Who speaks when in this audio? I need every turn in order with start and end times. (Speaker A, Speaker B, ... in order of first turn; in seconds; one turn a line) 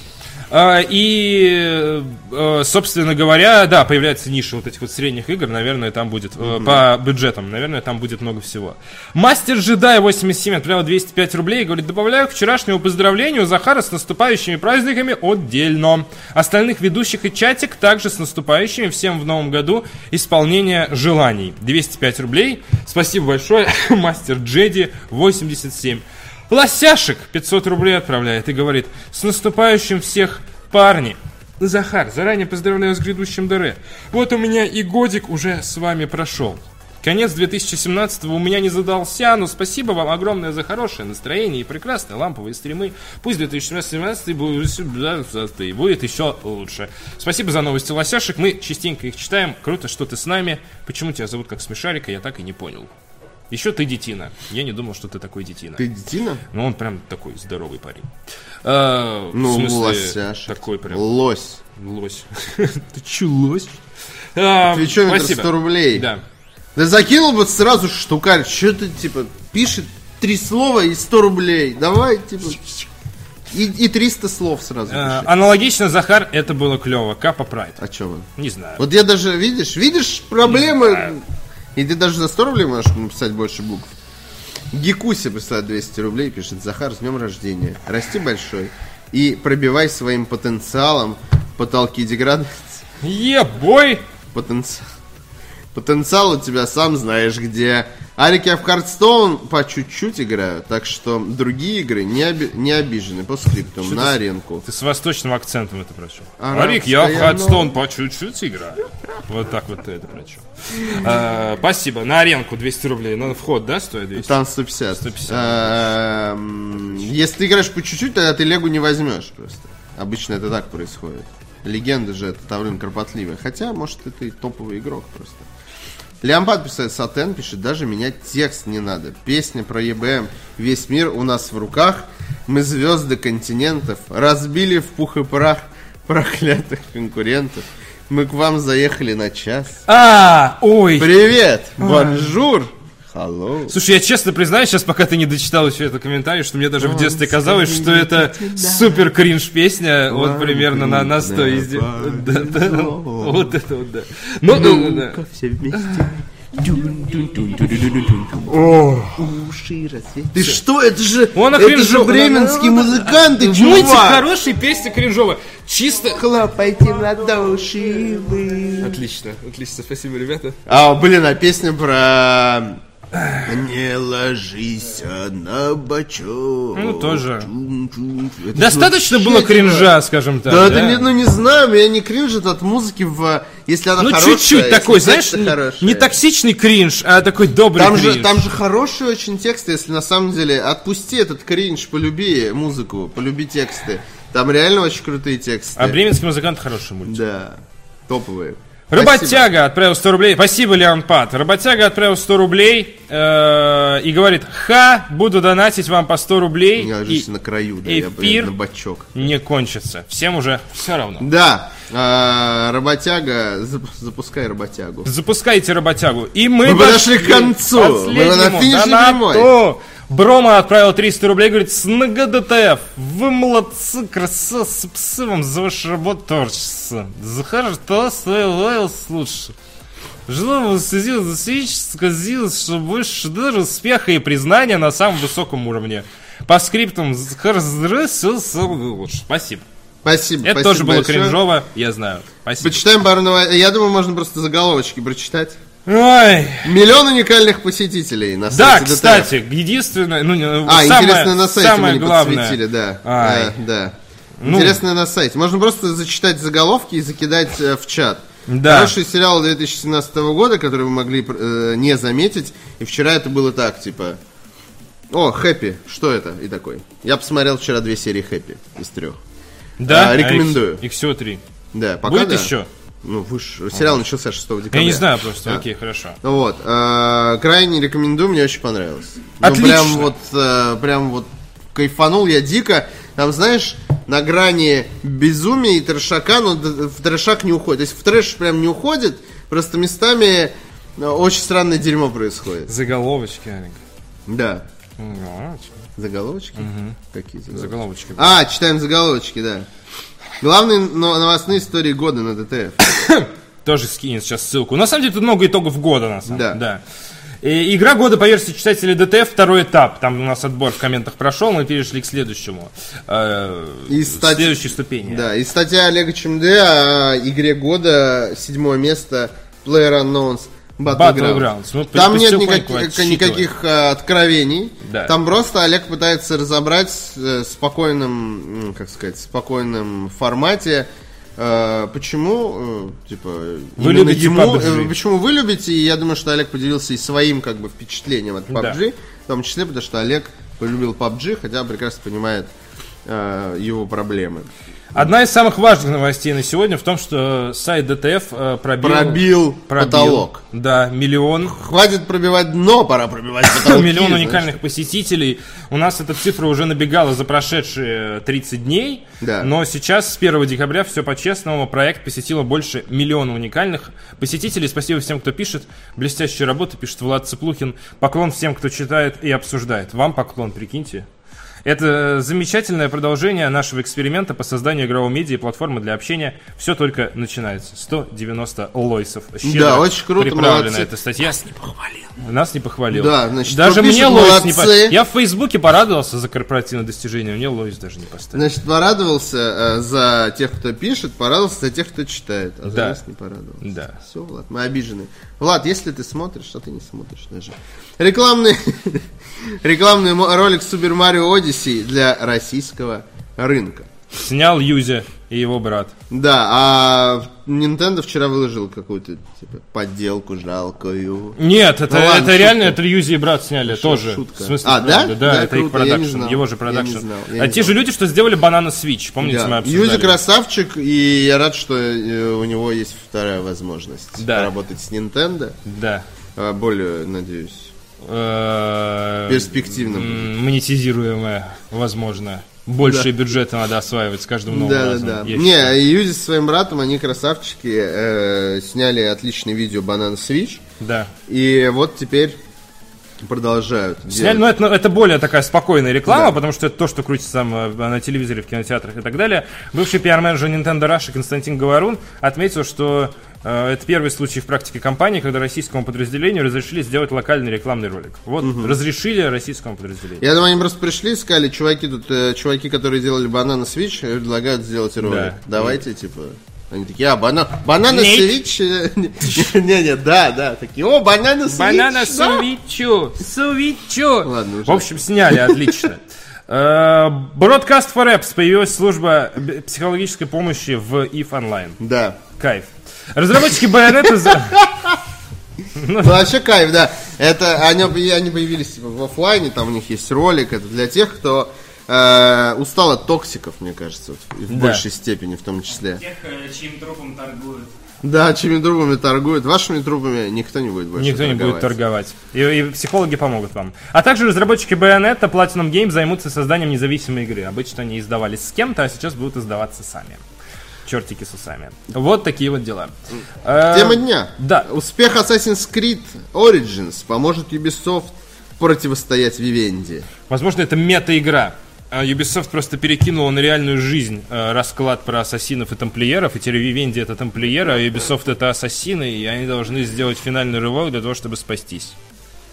Speaker A: 0.5-52.9
Speaker B: 6.4-6.8
Speaker A: 53.5-55.8
Speaker B: 55.8-56.4
Speaker A: 56.5-58.1
Speaker A: 58.6-61.0
Speaker B: 59.3-61.6
Speaker A: 61.8-62.8
Speaker B: 62.9-63.7
Speaker A: 64.3-66.2
Speaker B: 64.7-66.1
Speaker B: 66.7-72.9
Speaker B: 73.5-75.3
Speaker A: 74.9-77.8
Speaker B: 77.8-81.2
Speaker A: 78.4-78.8
Speaker A: 80.7-81.1
Speaker B: 81.7-83.9
Speaker B: 84.7-92.8
Speaker A: 93.0-94.0
Speaker B: 94.3-94.8
Speaker B: 95.7-104.6
Speaker A: 103.8-114.3
Speaker B: 106.4-107.7
Speaker B: 114.2-125.5
Speaker A: 114.9-115.8
Speaker B: 126.2-139.8
Speaker A: 139.9-141.1
Speaker B: 141.0-143.8
Speaker A: 141.8-142.2
Speaker A: 143.7-155.2
Speaker B: 146.8-149.1
Speaker B: 150.1-153.6
Speaker B: 154.5-164.3
Speaker A: 155.7-156.1
Speaker A: 157.6-159.1
Speaker A: 161.3-166.2
Speaker B: 166.1-169.0
Speaker A: 168.8-170.6
Speaker B: 170.7-172.8
Speaker A: 173.1-173.4
Speaker B: 173.4-186.1
Speaker A: 176.7-177.5
Speaker A: 178.5-181.1
Speaker A: 184.0-188.4
Speaker B: 187.7-196.0
Speaker A: 195.8-197.2
Speaker B: 197.1-199.5
Speaker A: 198.9-207.3
Speaker B: 206.8-209.3
Speaker A: 207.8-208.5
Speaker A: 209.1-211.3
Speaker B: 211.2-215.1
Speaker A: 215.0-229.5
Speaker B: 216.6-219.5
Speaker A: 230.3-239.6
Speaker B: 240.0-241.4
Speaker A: 240.4-242.8
Speaker B: 242.6-245.6
Speaker A: 245.8-246.8
Speaker B: 246.6-249.3
Speaker A: 248.5-253.6
Speaker B: 250.6-264.2
Speaker A: 254.4-254.8
Speaker A: 258.5-258.9
Speaker B: 265.1-269.2
Speaker A: 269.8-271.4
Speaker B: 269.9-270.8
Speaker B: 271.7-275.6
Speaker A: 272.0-272.7
Speaker A: 274.7-276.2
Speaker B: 276.2-292.7
Speaker A: 279.4-280.1
Speaker A: 292.7-293.8
Speaker B: 294.3-294.6
Speaker A: 295.0-295.7
Speaker B: 296.0-299.7
Speaker A: 296.6-297.0
Speaker A: 297.5-298.3
Speaker B: 300.4-303.1
Speaker A: 302.8-306.8
Speaker B: 306.3-306.6
Speaker A: 307.4-315.3
Speaker B: 313.9-342.5
Speaker A: 320.9-323.5
Speaker A: 324.8-325.1
Speaker A: 333.8-334.9
Speaker A: 338.5-338.8
Speaker B: 343.0-345.1
Speaker A: 344.9-351.6
Speaker B: 348.8-350.4
Speaker B: 351.5-354.6
Speaker A: 353.5-371.1
Speaker B: 359.2-359.5
Speaker A: 371.6-381.5
Speaker B: 379.4-382.1
Speaker A: 382.2-388.5
Speaker B: 382.9-385.0
Speaker B: 388.3-403.9
Speaker A: 392.7-393.0
Speaker A: 393.6-394.0
Speaker A: 404.1-405.9
Speaker B: 406.1-412.8
Speaker A: 411.4-420.2
Speaker B: 413.7-417.8
Speaker B: 419.2-425.6
Speaker A: 424.2-424.5
Speaker A: 425.6-426.0
Speaker B: 426.4-427.7
Speaker A: 428.0-435.7
Speaker B: 429.3-430.3
Speaker B: 432.8-433.1
Speaker B: 434.5-440.6
Speaker A: 440.8-441.1
Speaker B: 441.3-442.4
Speaker B: 443.2-444.5
Speaker A: 444.1-460.2
Speaker B: 446.1-446.4
Speaker B: 458.4-458.8
Speaker B: 460.2-472.5
Speaker A: 465.0-465.8
Speaker A: 467.9-468.3
Speaker A: 471.5-481.8
Speaker B: 474.2-475.8
Speaker B: 481.8-482.2
Speaker A: 482.4-484.6
Speaker B: 484.0-485.0
Speaker A: 485.7-486.3
Speaker B: 486.0-496.0
Speaker A: 494.5-494.8
Speaker C: 495.8-497.7
Speaker B: 498.0-501.7
Speaker A: 500.9-510.2
Speaker A: 510.9-514.7
Speaker B: 513.7-520.1
Speaker A: 520.3-532.0